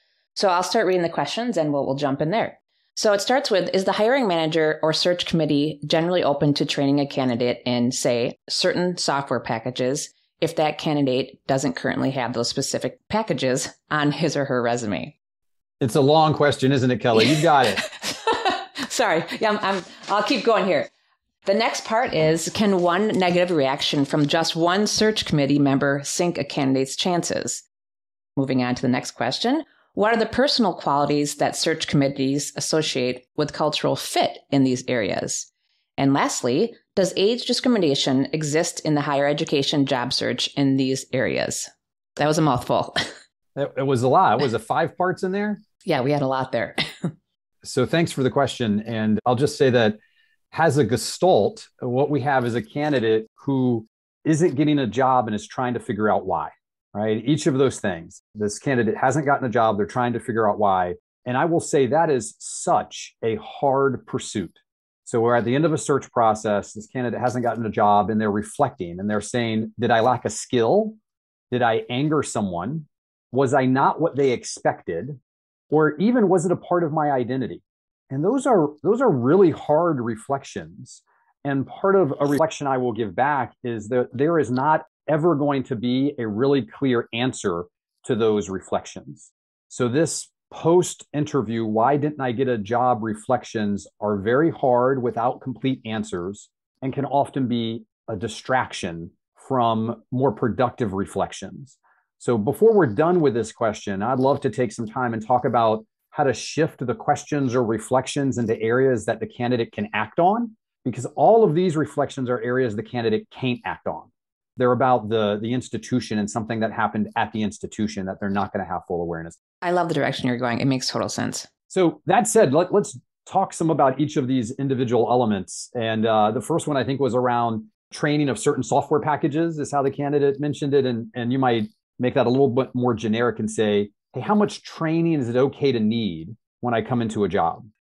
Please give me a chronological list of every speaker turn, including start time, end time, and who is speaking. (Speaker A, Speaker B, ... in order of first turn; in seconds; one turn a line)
Speaker A: 0.3-15.1
Speaker B: 15.8-17.8
Speaker A: 17.1-20.9
Speaker A: 21.4-27.6
Speaker A: 28.4-43.1
Speaker B: 43.6-45.6
Speaker A: 45.9-47.1
Speaker B: 47.6-50.0
Speaker B: 50.5-71.0
Speaker B: 71.5-75.2
Speaker B: 75.7-119.4
Speaker A: 119.6-121.5
Speaker B: 121.7-137.7